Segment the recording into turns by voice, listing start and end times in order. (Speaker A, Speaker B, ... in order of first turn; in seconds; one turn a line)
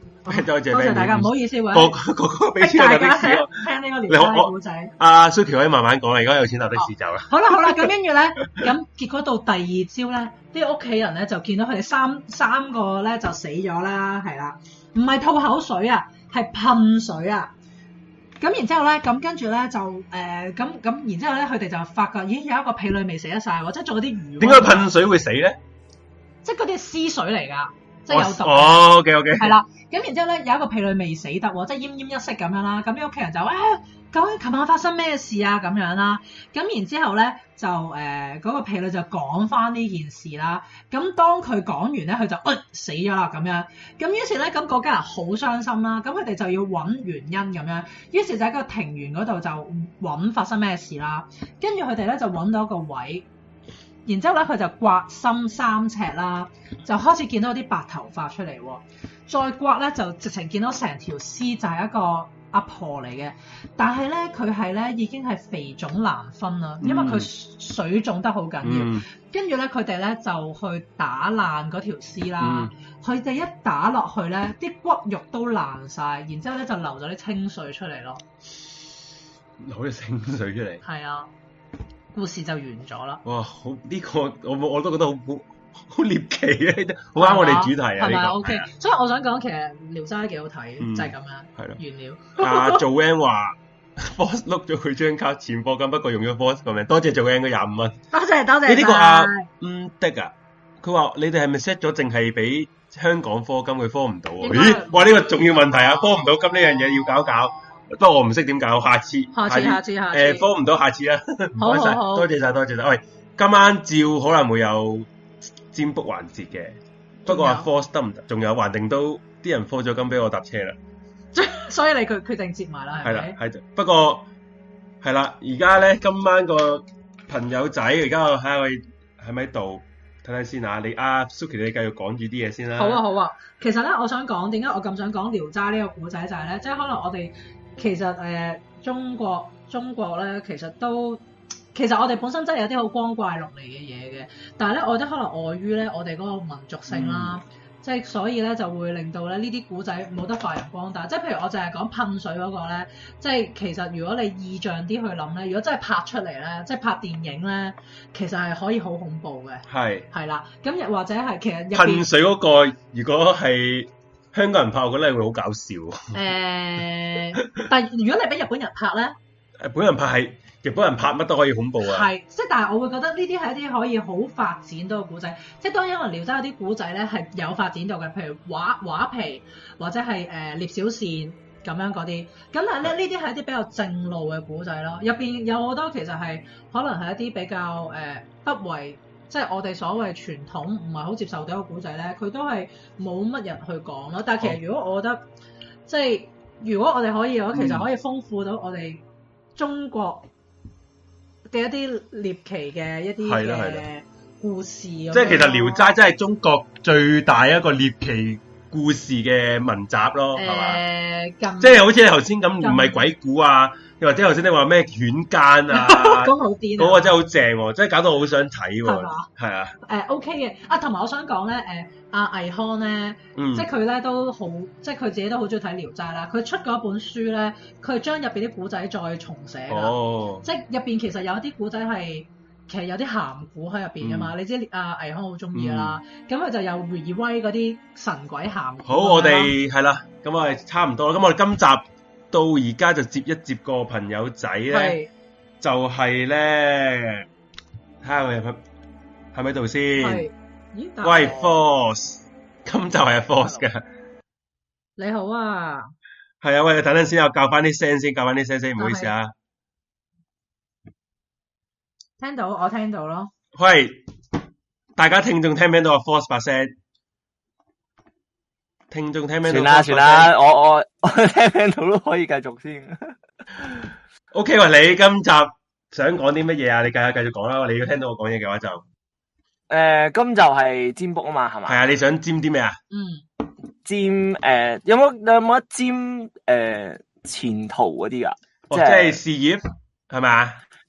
Speaker A: 0.3-2.0
Speaker B: 0.3-7.9
Speaker A: 2.6-4.9
Speaker A: 6.8-17.5
Speaker A: 18.4-24.9
Speaker B: 24.4-25.6
Speaker A: 26.4-53.3
Speaker B: 28.1-29.6
Speaker A: 54.1-78.2
Speaker B: 66.8-67.3
Speaker B: 68.6-69.1
Speaker B: 72.4-72.7
Speaker B: 79.6-80.8
Speaker A: 80.8-81.3
Speaker A: 82.1-83.2
Speaker B: 83.2-88.7
Speaker A: 87.2-92.8
Speaker B: 90.8-91.8
Speaker B: 92.4-98.0
Speaker A: 98.1-99.5
Speaker B: 98.7-115.1
Speaker A: 104.4-106.2
Speaker A: 109.3-110.5
Speaker A: 111.6-112.3
Speaker B: 115.7-120.8
Speaker A: 117.3-117.7
Speaker A: 121.3-123.4
Speaker B: 123.0-124.2
Speaker B: 125.0-133.0
Speaker A: 132.8-162.1
Speaker B: 146.9-147.4
Speaker B: 159.7-160.1
Speaker B: 161.7-166.2
Speaker A: 166.1-169.2
Speaker B: 169.6-172.1
Speaker A: 171.8-195.2
Speaker A: 195.9-199.0
Speaker B: 197.5-197.9
Speaker A: 199.6-200.3
Speaker A: 201.5-205.9
Speaker B: 203.2-203.9
Speaker B: 205.1-210.8
Speaker A: 210.3-211.9
Speaker B: 211.6-219.8
Speaker A: 212.6-213.1
Speaker A: 215.7-217.2
Speaker A: 218.8-219.3
Speaker A: 219.8-239.5
Speaker B: 223.4-223.7
Speaker B: 229.7-230.5
Speaker B: 234.0-234.3
Speaker B: 235.5-236.0
Speaker B: 238.8-245.0
Speaker A: 244.7-245.1
Speaker B: 245.6-247.3
Speaker B: 248.0-248.6
Speaker B: 249.3-250.3
Speaker A: 250.0-251.6
Speaker B: 251.0-253.8
Speaker A: 255.0-255.9
Speaker B: 256.4-259.3
Speaker A: 258.8-259.1
Speaker A: 262.2-263.3
Speaker B: 263.6-264.0
Speaker B: 265.0-266.7
Speaker B: 268.9-270.3
Speaker C: 269.5-273.8
Speaker B: 274.3-278.8
Speaker C: 279.7-282.0
Speaker B: 281.7-282.8
Speaker A: 282.9-283.2
Speaker C: 283.9-289.2
Speaker B: 288.7-290.6